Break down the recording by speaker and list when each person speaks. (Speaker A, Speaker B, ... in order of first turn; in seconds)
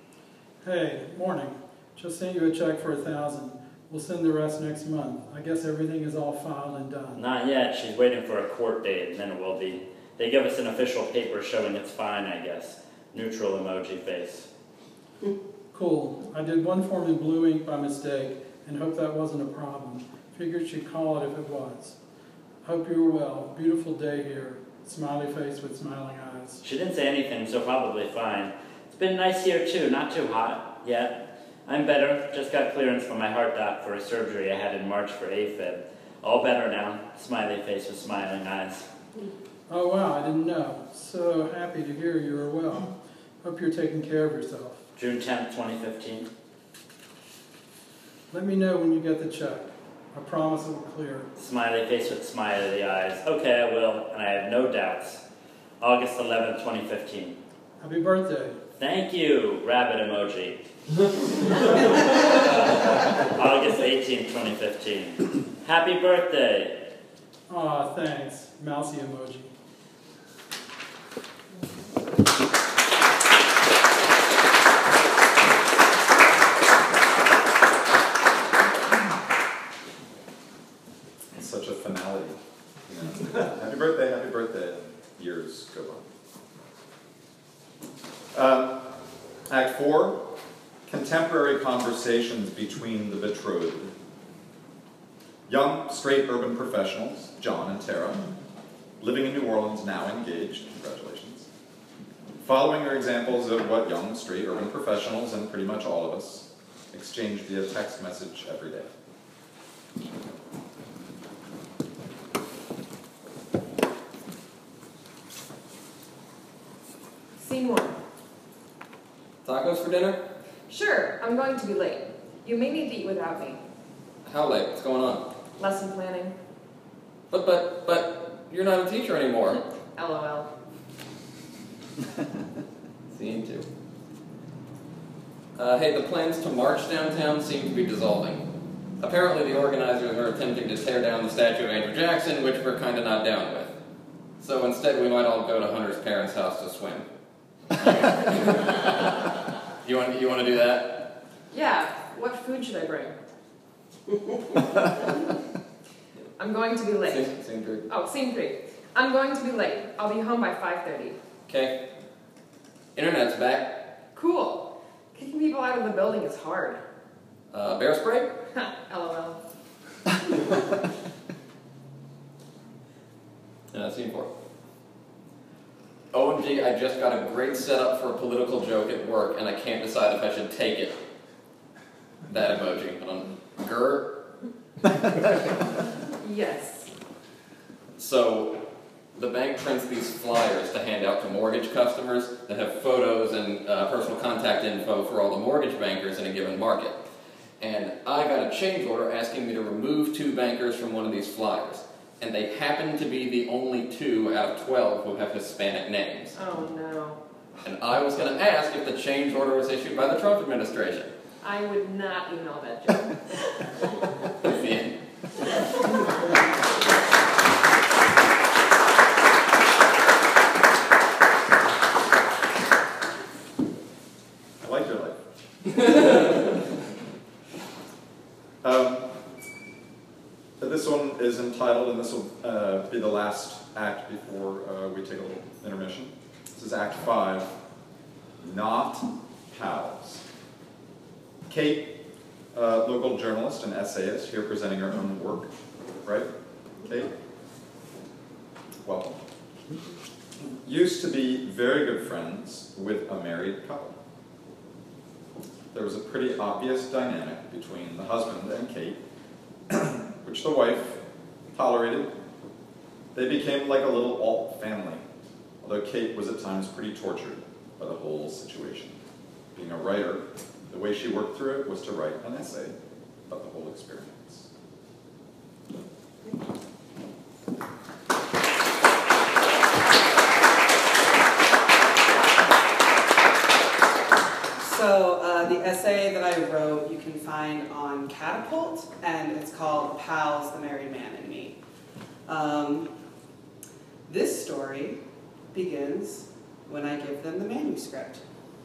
Speaker A: 0.6-7.2, 15.7-22.0, 22.6-26.6, 39.7-42.9, 43.4-44.8, 48.3-51.3, 57.8-58.6, 67.5-69.5
Speaker B: 7.2-14.5, 26.6-38.9, 45.0-46.3, 51.4-55.2, 55.8-57.4, 58.8-60.6, 61.5-62.0, 63.2-66.9
Speaker C: 81.3-86.0, 88.3-90.3, 90.8-93.9, 95.5-98.3, 99.0-101.5, 102.4-108.9, 224.6-225.2, 228.6-229.2, 230.6-237.5, 238.4-240.2, 241.5-245.5, 246.0-246.3, 246.8-247.1, 248.8-249.2, 250.6-253.9, 255.7-259.0, 259.7-261.0, 261.5-262.1, 263.1-265.0, 265.6-269.0, 269.5-272.8, 273.3-274.5
Speaker D: 117.3-118.0, 120.7-123.6, 125.6-126.3, 129.9-130.5, 151.5-153.2, 156.4-157.3, 157.9-161.2, 164.1-166.8, 168.5-169.4, 186.2-186.9, 206.3-207.2, 211.4-213.3
Speaker E: 119.4-120.2, 124.2-125.3, 127.3-129.6, 133.1-133.7, 135.5-138.4, 139.0-143.7, 144.4-147.1, 147.8-149.1, 149.8-151.1, 157.1-157.8, 161.5-161.8, 162.9-163.9, 167.5-168.3, 173.7-174.3, 176.1-181.0, 182.3-184.2, 187.9-197.0, 197.6-206.3, 207.6-211.1, 214.4-214.9
Speaker F: 284.6-291.6, 292.3-292.9, 294.1-295.0, 295.5-298.2